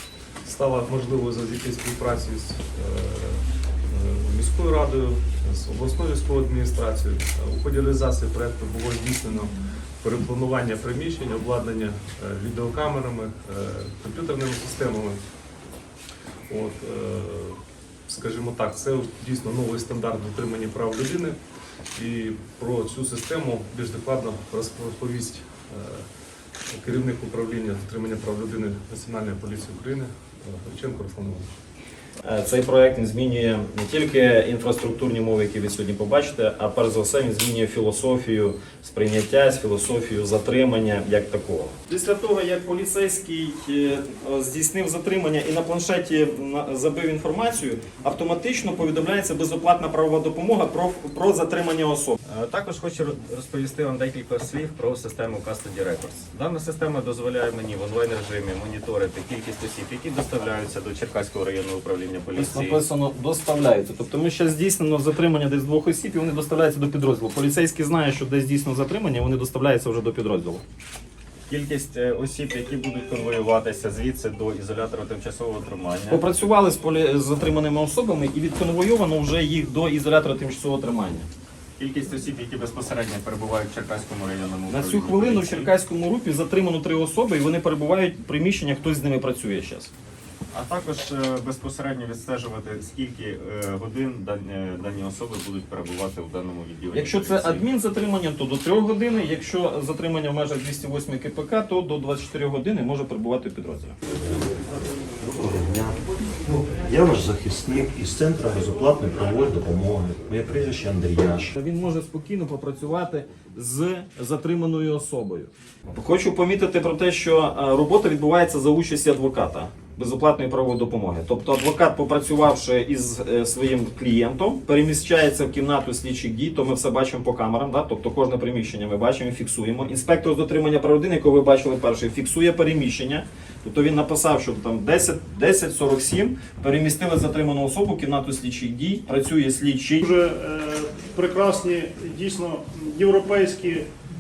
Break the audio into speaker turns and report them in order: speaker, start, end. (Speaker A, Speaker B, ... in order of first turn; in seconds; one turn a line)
Speaker A: 0.4-15.2
Speaker A: 16.5-21.4
Speaker A: 21.9-26.1
Speaker A: 26.7-31.6
Speaker B: 32.2-52.2
Speaker C: 52.3-62.8
Speaker B: 62.4-70.6
Speaker C: 71.5-76.2
Speaker B: 76.1-81.3
Speaker C: 81.8-85.7
Speaker B: 84.7-89.9
Speaker C: 90.5-97.7
Speaker B: 96.9-104.0
Speaker D: 104.2-104.5
Speaker D: 105.2-111.5
Speaker B: 111.4-140.1
Speaker E: 140.0-143.9